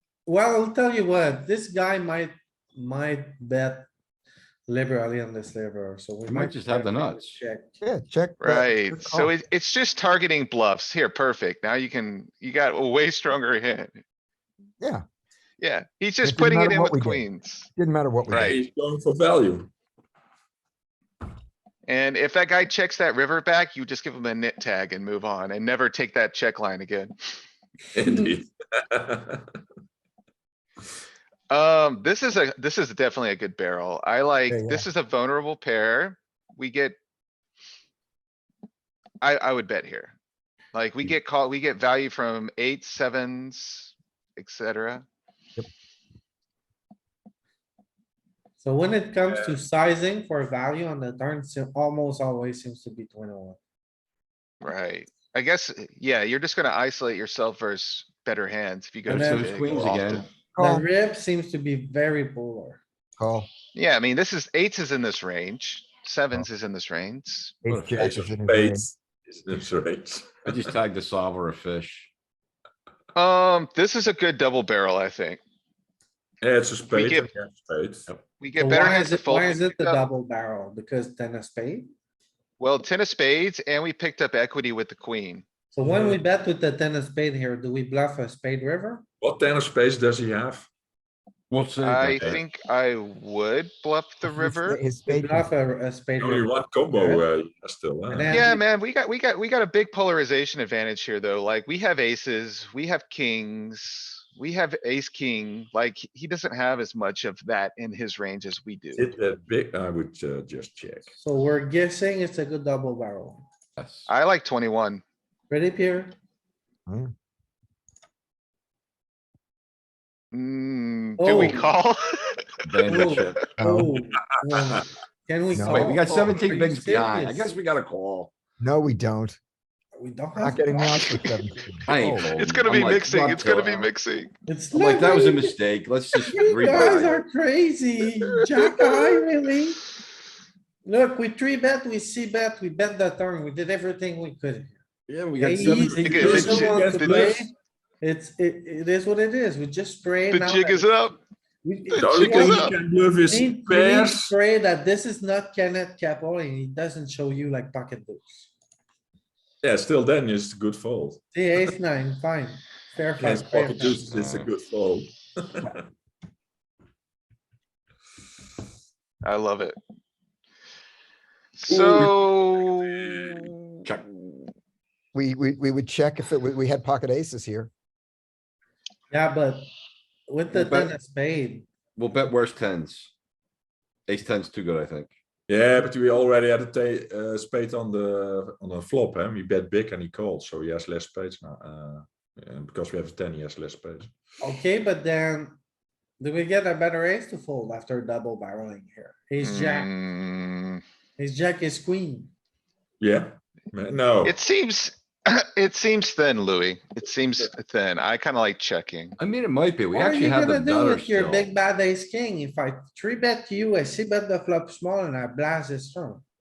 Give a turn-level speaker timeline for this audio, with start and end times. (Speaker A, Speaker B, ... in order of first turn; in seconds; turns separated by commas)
Speaker A: 0.2-3.9, Speaker A: 4.7-7.7, Speaker B: 6.3-7.4, Speaker C: 7.8-9.3, Speaker D: 8.4-13.9, Speaker D: 15.6-17.7, Speaker C: 16.2-17.2, Speaker C: 17.8-18.6, Speaker D: 18.3-18.6, Speaker E: 18.3-19.7, Speaker D: 21.9-27.1, Speaker E: 27.9-29.6, Speaker D: 31.5-37.0, Speaker C: 34.5-34.9, Speaker D: 39.2-40.2, Speaker D: 40.7-45.0, Speaker A: 48.6-53.6, Speaker E: 49.3-49.6, Speaker D: 54.6-60.3, Speaker B: 59.0-60.3, Speaker A: 59.1-59.5, Speaker C: 60.5-60.9, Speaker A: 60.6-62.8, Speaker C: 63.2-63.5, Speaker D: 63.8-67.5, Speaker C: 67.6-68.9, Speaker B: 67.7-68.1, Speaker E: 67.9-70.5, Speaker B: 70.5-72.1, Speaker D: 73.1-75.4, Speaker E: 76.4-78.1, Speaker D: 76.9-77.3, Speaker D: 78.4-80.0, Speaker A: 78.6-81.9, Speaker D: 82.6-85.5, Speaker A: 85.7-89.0, Speaker B: 85.8-86.2, Speaker E: 89.2-90.7, Speaker B: 91.5-92.4, Speaker D: 91.8-94.9, Speaker E: 92.0-92.4, Speaker C: 94.2-95.5, Speaker A: 95.1-97.2, Speaker E: 96.2-98.5, Speaker A: 98.1-98.5, Speaker D: 98.3-109.1, Speaker E: 109.0-111.1, Speaker A: 111.2-113.4, Speaker B: 113.8-114.1, Speaker D: 114.1-115.0, Speaker A: 115.5-116.1, Speaker C: 116.9-117.1, Speaker D: 120.3-122.4, Speaker A: 121.2-121.7, Speaker B: 122.6-123.5, Speaker A: 122.9-127.5, Speaker C: 123.6-124.0, Speaker E: 124.2-124.8, Speaker C: 125.5-126.0, Speaker B: 125.6-128.3, Speaker C: 128.6-129.4, Speaker A: 130.0-131.4, Speaker C: 130.4-132.3, Speaker B: 131.8-133.9, Speaker D: 132.3-134.3, Speaker A: 134.5-135.6, Speaker B: 134.7-137.2, Speaker A: 136.2-139.8, Speaker D: 138.6-139.2, Speaker A: 140.8-144.8, Speaker B: 145.1-146.5, Speaker A: 145.4-151.0, Speaker E: 145.7-147.5, Speaker D: 146.1-147.3, Speaker D: 150.3-151.2, Speaker A: 151.6-152.8, Speaker D: 151.9-152.8, Speaker E: 152.0-154.3, Speaker A: 153.2-158.5, Speaker E: 159.6-161.7, Speaker A: 161.3-164.1, Speaker E: 163.2-165.8, Speaker B: 163.8-164.5, Speaker D: 169.2-169.8, Speaker D: 171.6-173.6, Speaker E: 171.7-172.2, Speaker E: 173.1-173.4, Speaker B: 173.8-174.2, Speaker C: 175.1-177.7, Speaker A: 179.1-179.7, Speaker A: 180.3-181.7, Speaker B: 180.5-180.9, Speaker B: 182.0-183.1, Speaker B: 184.1-185.1, Speaker E: 185.5-194.1, Speaker A: 194.4-195.6, Speaker A: 196.2-199.9, Speaker D: 199.4-200.8, Speaker A: 201.2-202.3, Speaker E: 203.0-204.3, Speaker D: 204.2-209.2, Speaker B: 209.2-211.5, Speaker A: 209.9-216.2